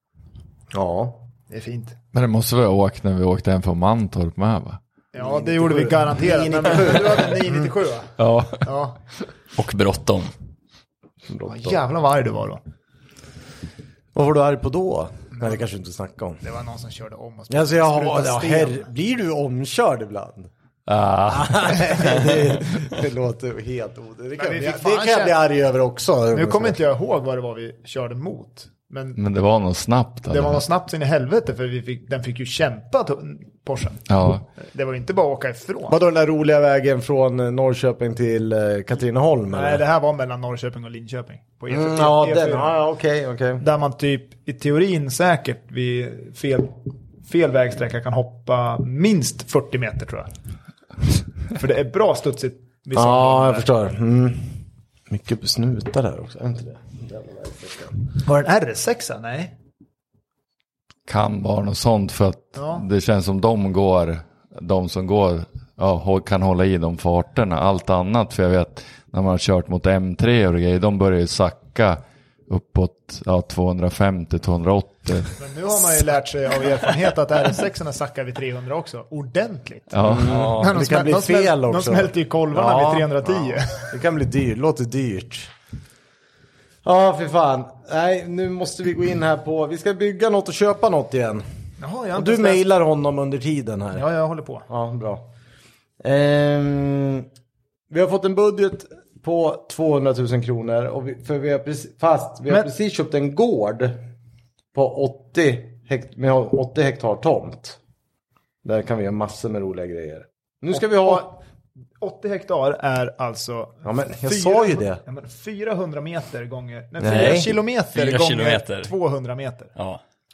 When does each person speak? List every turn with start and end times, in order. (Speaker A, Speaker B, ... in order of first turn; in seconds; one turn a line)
Speaker A: 0.7-1.3
Speaker B: 1.5-1.9
Speaker C: 2.1-4.8
Speaker B: 5.1-9.0
Speaker A: 5.2-7.7
Speaker C: 8.2-8.7
Speaker D: 9.6-10.3
Speaker A: 11.3-11.8
Speaker B: 11.4-12.6
Speaker A: 14.1-16.4
Speaker B: 15.3-15.6
Speaker B: 16.4-18.9
Speaker A: 17.5-20.5
Speaker C: 20.9-22.1
Speaker A: 21.3-26.8
Speaker B: 24.4-25.4
Speaker B: 26.3-29.2
Speaker C: 29.2-30.6
Speaker B: 30.3-34.1
Speaker C: 34.1-34.5
Speaker B: 34.6-36.0
Speaker A: 35.9-39.8
Speaker B: 39.5-42.8
Speaker A: 41.7-43.6
Speaker B: 43.6-50.3
Speaker B: 51.5-53.7
Speaker A: 52.9-58.0
Speaker B: 58.2-59.5
Speaker C: 61.1-75.4
Speaker B: 62.5-62.9
Speaker B: 75.4-83.9
Speaker C: 79.9-80.6
Speaker A: 80.0-85.5
Speaker A: 86.8-91.4
Speaker B: 91.8-92.6
Speaker A: 92.2-94.0
Speaker B: 93.9-94.7
Speaker A: 94.7-95.2
Speaker A: 96.0-97.3
Speaker A: 97.9-104.0
Speaker A: 104.7-107.8
Speaker A: 108.6-111.3
Speaker B: 110.7-111.4
Speaker B: 112.0-119.7
Speaker A: 113.8-115.0
Speaker A: 117.0-117.5
Speaker D: 117.2-118.9